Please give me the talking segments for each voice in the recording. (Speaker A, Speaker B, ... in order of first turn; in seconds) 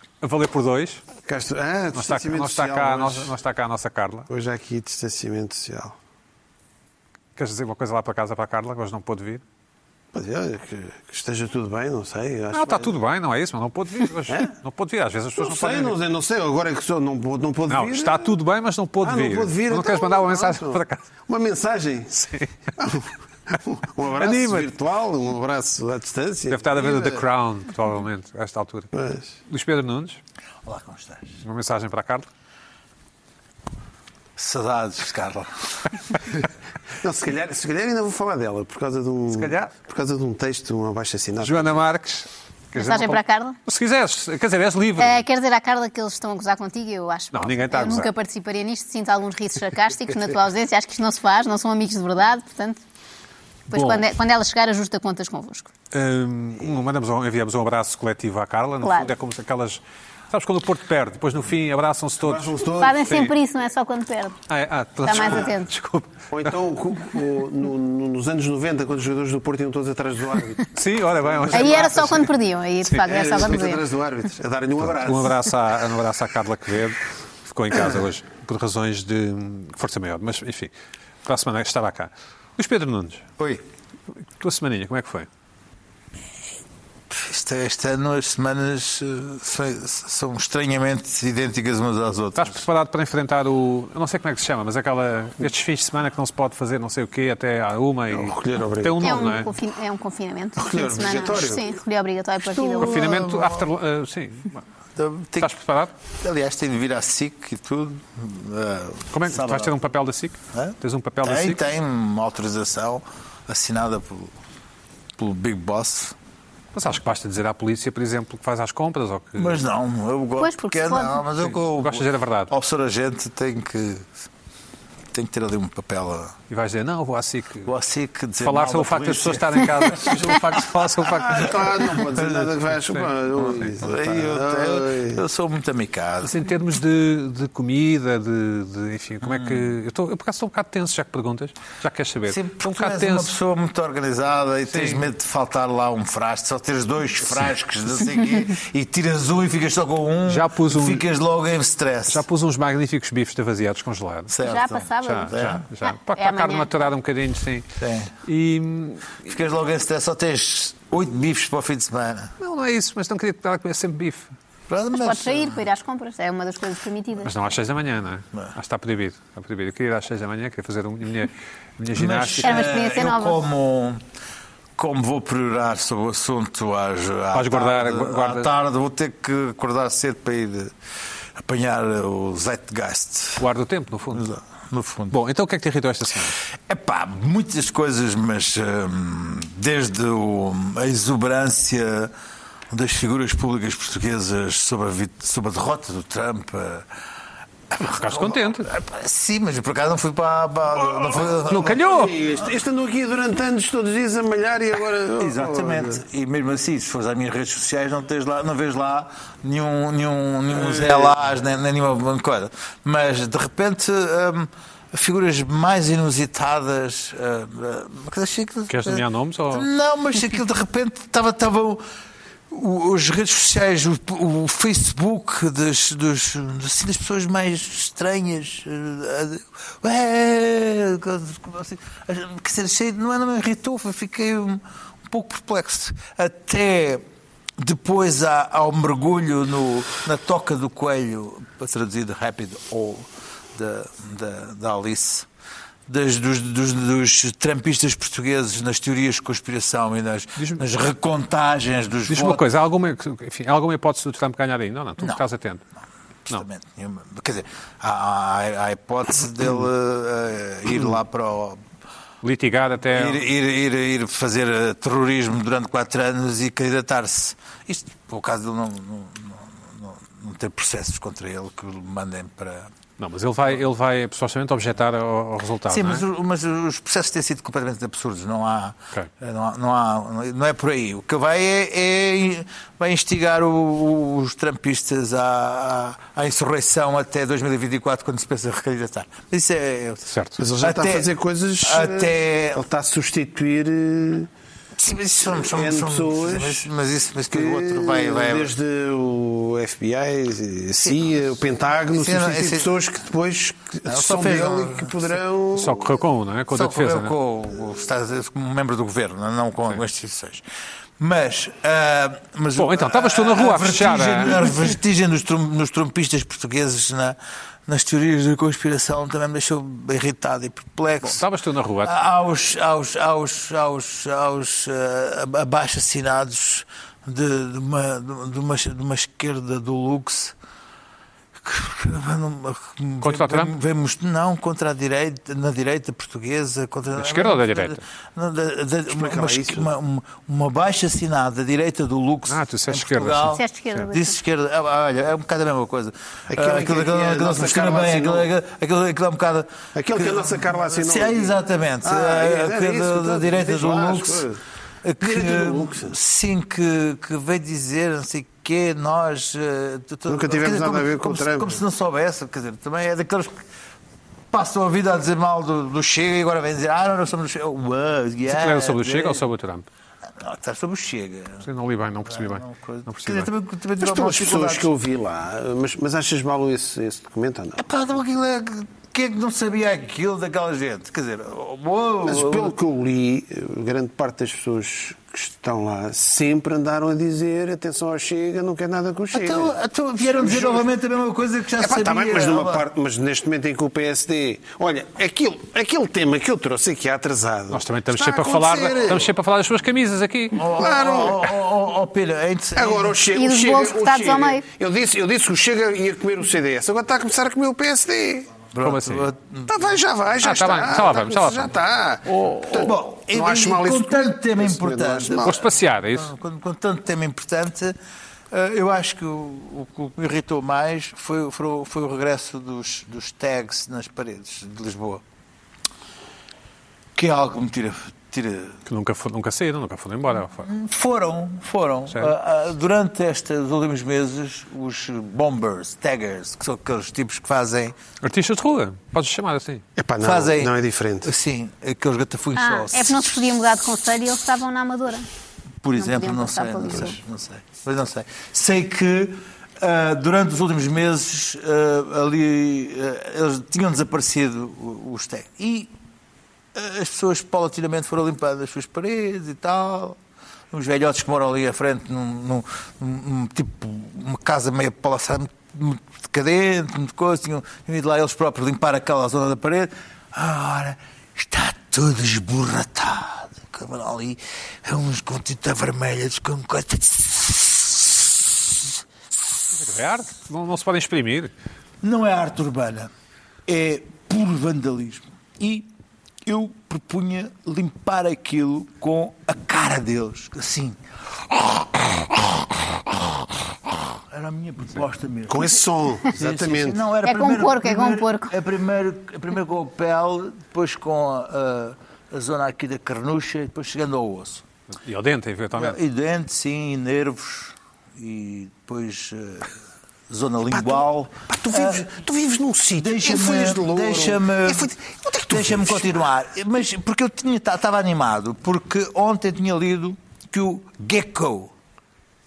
Speaker A: 0.2-1.0, 1.9-4.3, 7.3-9.4, 12.5-16.0, 17.7-21.0, 22.1-22.7, 24.1-24.7, 26.5-30.2, 31.4-32.3, 39.3-39.7, 41.4-45.2, 47.3-48.1, 53.7-54.0, 55.9-63.3, 64.5-66.5, 70.7-72.3, 72.8-73.1, 74.8-80.7, 81.2-83.3, 84.4-85.3, 92.3-99.5, 102.8-104.6, 105.4-105.9, 109.1-111.6, 116.7-119.6, 121.4-122.5, 126.5-127.7, 128.4-131.9, 132.8-133.1, 136.2-143.3, 144.7-145.1, 150.2-151.0, 152.1-154.3, 155.0-157.7, 158.2-159.2, 162.4-164.3, 167.2-172.7, 177.3-178.5, 183.4-184.2, 185.1-186.4, 197.8-198.7, 201.5-202.2, 218.7-219.7, 250.4-250.6, 252.1-255.6, 262.2-263.2, 273.0-276.0, 290.1-290.4, 305.5-307.1, 312.5-314.5, 321.0-321.9, 333.0-333.5, 336.9-337.8, 342.3-343.4, 368.2-369.6, 371.4-373.3, 397.5-400.6, 408.6-409.1, 410.2-412.7, 415.2-416.1, 428.6-430.5, 438.0-439.6, 479.5-481.3, 504.8-505.8
Speaker B: 1.2-3.3, 4.3-5.9, 10.1-12.9, 15.4-18.3, 19.0-22.1, 22.8-27.2, 28.9-29.3, 37.0-41.7, 62.2-63.2, 66.3-70.7, 71.4-71.9, 73.0-75.5, 98.1-99.3, 100.6-101.6, 130.9-135.2, 201.0-206.0, 210.5-211.2, 290.4-294.3, 295.4-296.6, 297.3-306.0, 338.9-339.7, 346.3-348.3, 349.7-354.4, 355.0-355.9, 360.1-361.6, 373.8-377.6, 382.1-389.5, 390.1-390.7, 391.6-399.0, 400.6-401.4, 402.6-408.4, 409.4-415.4, 439.8-441.1, 495.3-496.8, 510.5-516.0
Speaker C: 30.6-31.4, 34.4-35.9, 87.1-92.6, 102.4-103.7, 105.0-109.8, 110.5-114.3, 115.2-116.2, 119.4-124.1, 125.1-126.3, 127.6-130.6, 132.0-132.6, 133.4-136.4, 139.2-139.7, 142.3-152.2, 154.3-155.6, 157.8-158.1, 159.2-162.3, 164.7-165.6, 171.9-174.0, 174.8-180.7, 181.4-183.5, 184.1-185.1, 186.6-192.1, 192.7-196.9, 197.7-201.8, 205.2-221.8, 222.5-237.0, 237.6-245.3, 245.9-252.4, 256.3-261.6, 262.9-272.7, 275.7-291.1, 291.6-292.6, 294.8-298.5, 301.9-302.7, 303.9-305.1, 306.5-310.4, 311.0-321.2, 321.8-330.3, 331.4-354.3, 354.8-363.4, 364.3-369.2, 370.2-371.5, 372.0-374.7, 377.6-382.5, 389.1-392.6, 398.0-399.1, 400.3-403.0, 408.5-409.6, 412.5-417.8, 418.3-425.0, 426.9-428.6, 430.3-437.8, 440.0-440.5, 441.0-443.1, 445.6-455.7, 456.5-460.0, 460.5-478.7, 481.8-482.9, 483.4-485.7, 486.2-504.4, 505.5-509.5, 510.1-511.9, 512.8-521.5
Speaker D: 42.7-43.6, 45.0-52.8, 53.7-55.7, 58.8-59.1, 62.8-64.4, 65.0-65.7, 71.5-73.8, 99.0-103.2, 120.4-121.2, 154.4-156.7, 164.9-167.3, 172.4-173.4, 343.3-344.1, 403.1-404.4, 442.4-445.1, 445.8-446.9, 497.0-498.3